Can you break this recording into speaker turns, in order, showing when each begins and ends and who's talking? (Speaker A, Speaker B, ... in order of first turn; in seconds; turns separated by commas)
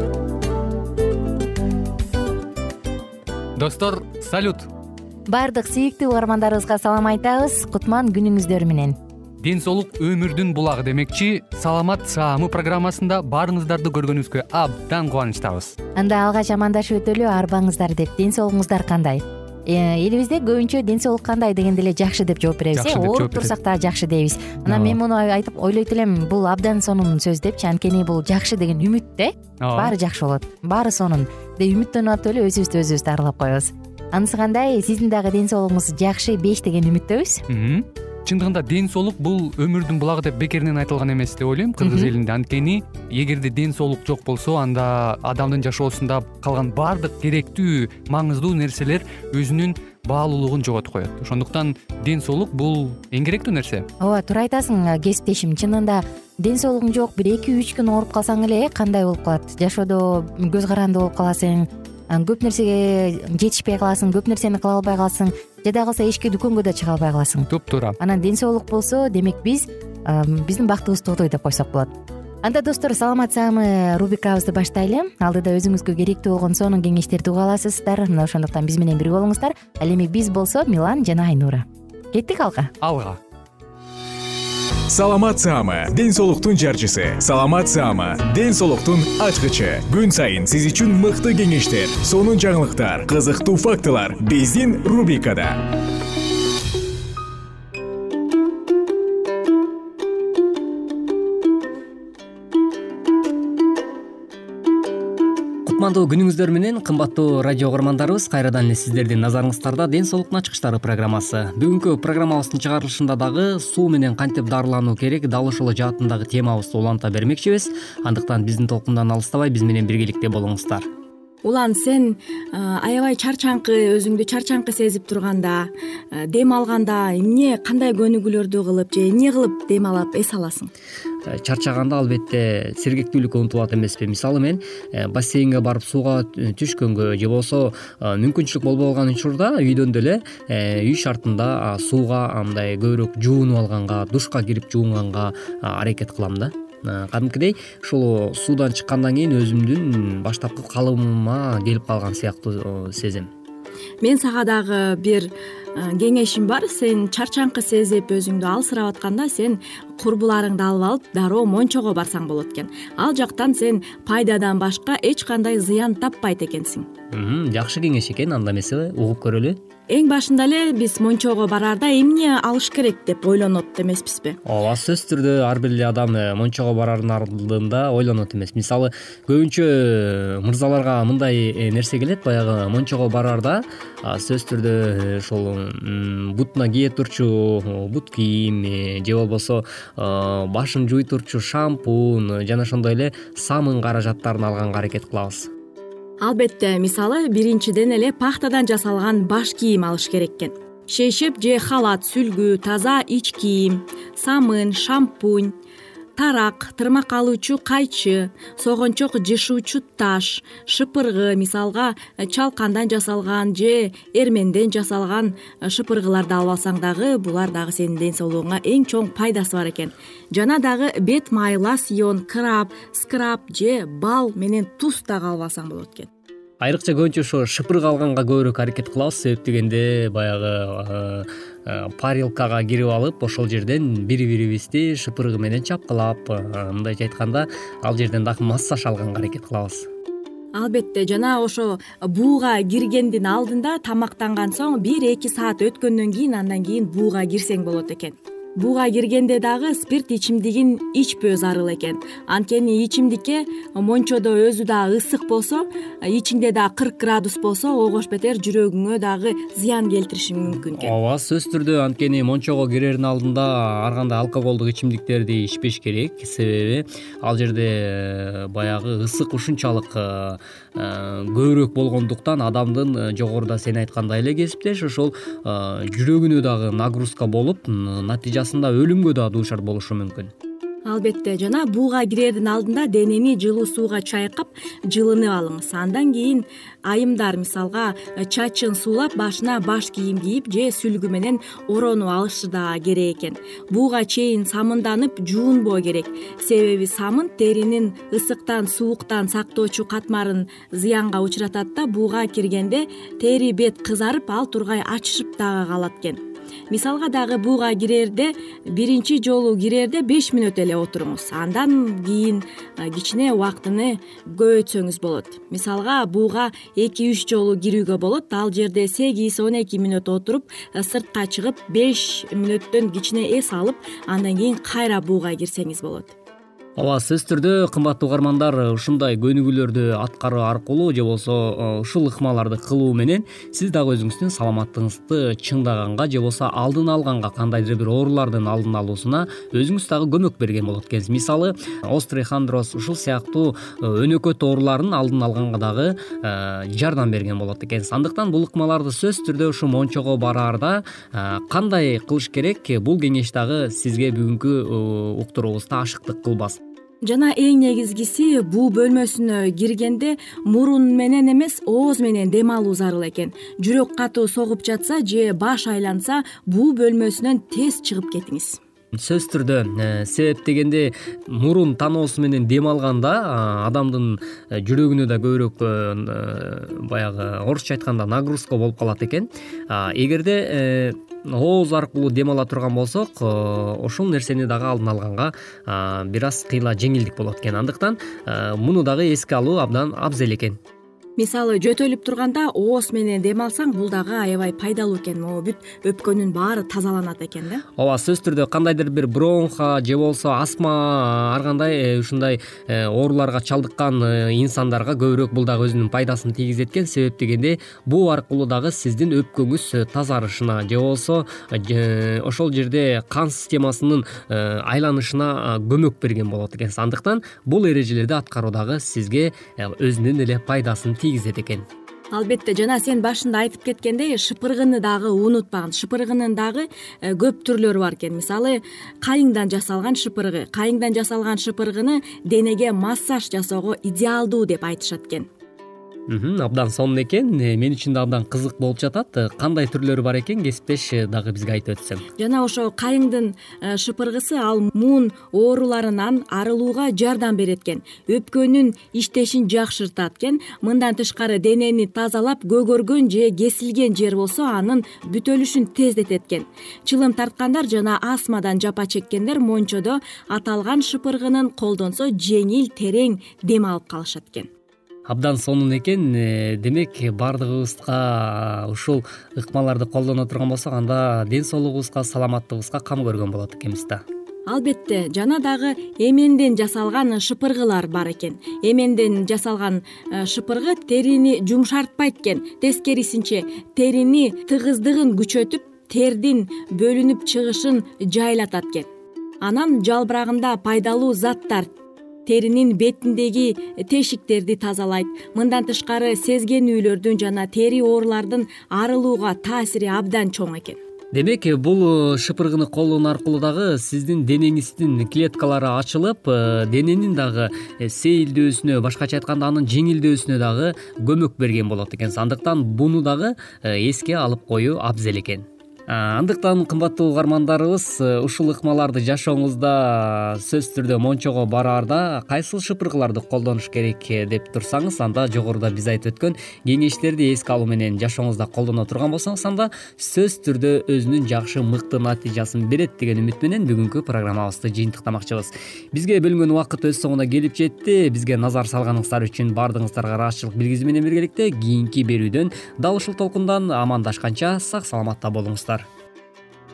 Speaker A: 3.6-4.7, Speaker B: 5.3-9.0, Speaker A: 9.4-15.8, Speaker B: 16.0-37.4, Speaker A: 22.8-23.5, Speaker A: 24.7-25.0, Speaker A: 29.6-29.9, Speaker A: 37.5-53.9, Speaker B: 41.8-42.1, Speaker B: 54.0-67.5, Speaker A: 67.5-68.0, Speaker B: 68.0-82.7, Speaker A: 82.8-83.2, Speaker C: 84.9-95.7, Speaker D: 105.7-120.9, Speaker E: 121.4-130.7, Speaker D: 131.3-153.3, Speaker E: 154.0-166.9, Speaker D: 167.1-169.6, Speaker E: 169.9-174.4, Speaker D: 174.5-195.5, Speaker E: 196.2-205.6, Speaker E: 206.2-226.1, Speaker D: 226.6-239.9, Speaker E: 240.5-260.9, Speaker D: 260.8-280.3, Speaker E: 280.9-326.1, Speaker D: 326.8-356.6, Speaker E: 357.0-368.6, Speaker D: 368.9-390.6, Speaker E: 391.2-397.6, Speaker D: 397.8-421.6, Speaker E: 422.1-435.3, Speaker D: 436.1-442.1, Speaker E: 442.2-464.5, Speaker D: 465.1-474.0, Speaker E: 474.5-488.9, Speaker E: 489.4-491.7, Speaker E: 492.3-500.8, Speaker D: 501.1-545.9